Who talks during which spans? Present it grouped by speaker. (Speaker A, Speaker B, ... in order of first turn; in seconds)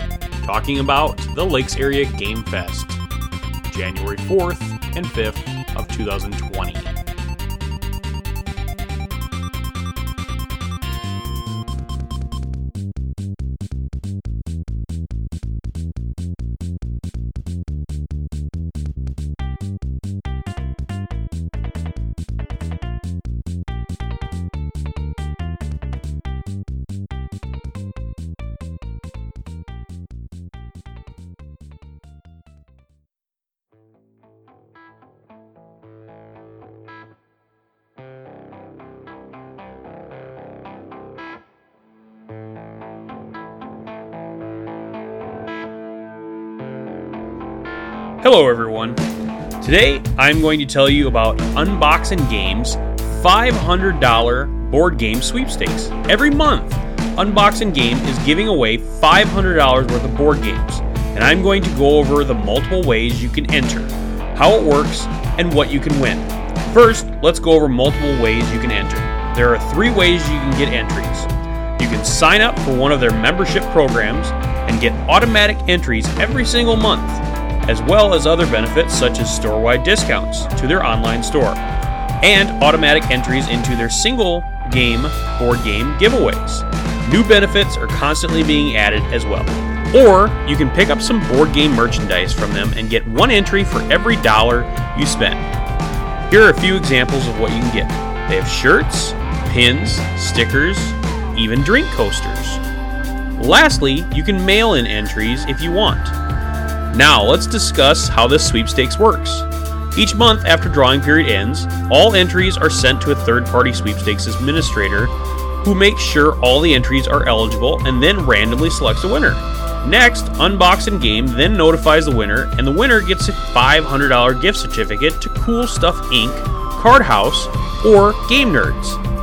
Speaker A: 0.4-3.0, 3.7-7.0, 48.2-49.0, 49.6-81.6, 82.2-95.5, 96.3-102.6, 103.4-106.2, 106.9-129.0